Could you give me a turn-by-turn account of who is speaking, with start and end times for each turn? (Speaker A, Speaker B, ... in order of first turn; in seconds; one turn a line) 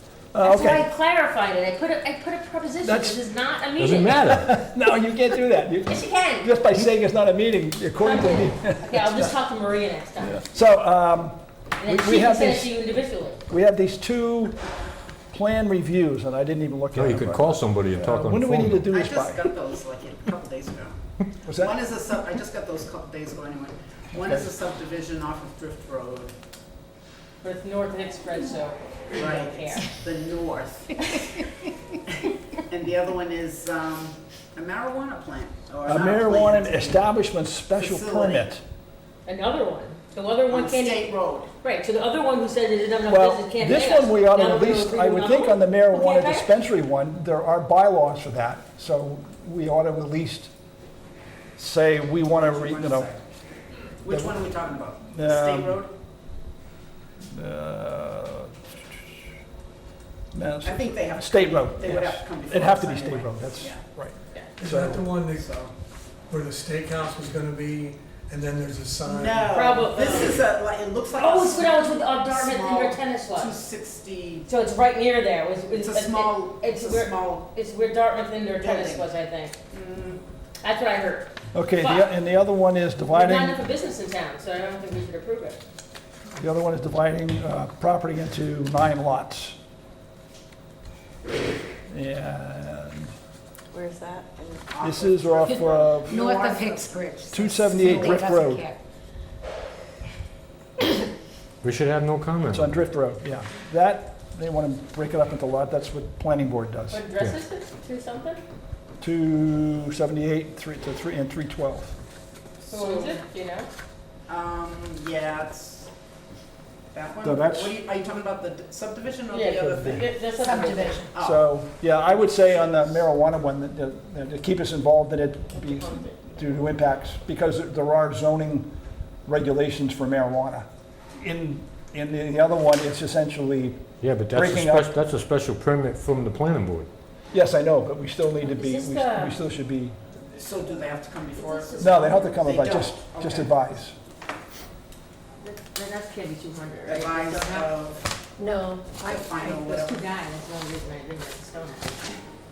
Speaker A: 0.3-0.9
Speaker B: 0.4-4.2
Speaker A: 2.8-3.2
Speaker C: 3.8-4.5
Speaker A: 4.3-9.3
Speaker B: 5.9-6.5
Speaker B: 8.0-10.4
Speaker A: 10.2-12.7
Speaker B: 11.8-13.4
Speaker A: 13.5-14.6
Speaker A: 15.3-19.5
Speaker C: 16.9-18.9
Speaker D: 18.9-20.9
Speaker A: 21.5-21.8
Speaker D: 21.5-26.3
Speaker B: 27.4-29.9
Speaker D: 29.1-31.4
Speaker D: 32.6-37.0
Speaker A: 35.9-38.6
Speaker D: 37.8-38.5
Speaker B: 39.2-46.6
Speaker D: 40.5-41.5
Speaker A: 43.1-50.5
Speaker A: 51.6-53.1
Speaker D: 52.3-53.2
Speaker D: 54.0-55.9
Speaker A: 54.1-54.4
Speaker A: 55.0-55.8
Speaker A: 57.3-58.5
Speaker A: 60.3-65.1
Speaker D: 60.6-63.8
Speaker E: 64.6-65.5
Speaker D: 65.1-65.7
Speaker E: 66.3-70.1
Speaker D: 69.0-74.5
Speaker B: 69.5-70.4
Speaker B: 71.2-73.5
Speaker B: 74.5-79.5
Speaker D: 75.7-77.5
Speaker D: 78.6-79.1
Speaker D: 79.7-80.2
Speaker B: 80.6-82.1
Speaker A: 81.5-83.6
Speaker B: 83.1-85.6
Speaker A: 86.4-89.6
Speaker A: 91.9-93.1
Speaker D: 94.7-97.1
Speaker A: 94.8-96.4
Speaker F: 95.5-98.8
Speaker A: 97.3-98.7
Speaker C: 101.6-102.8
Speaker A: 102.5-107.0
Speaker B: 106.9-108.4
Speaker A: 109.0-112.0
Speaker D: 112.6-113.1
Speaker B: 112.7-113.7
Speaker D: 114.3-115.9
Speaker D: 116.9-120.1
Speaker A: 117.2-117.8
Speaker B: 119.3-121.0
Speaker A: 119.5-120.1
Speaker F: 120.3-121.1
Speaker D: 121.1-121.5
Speaker A: 121.2-128.7
Speaker D: 122.1-122.8
Speaker B: 125.6-126.2
Speaker A: 129.3-134.9
Speaker C: 134.0-136.9
Speaker A: 137.3-140.0
Speaker B: 138.4-139.4
Speaker D: 140.3-143.6
Speaker B: 141.4-142.4
Speaker A: 141.8-143.9
Speaker B: 145.4-147.7
Speaker D: 146.9-148.0
Speaker F: 148.4-149.4
Speaker D: 149.1-150.0
Speaker B: 149.4-152.2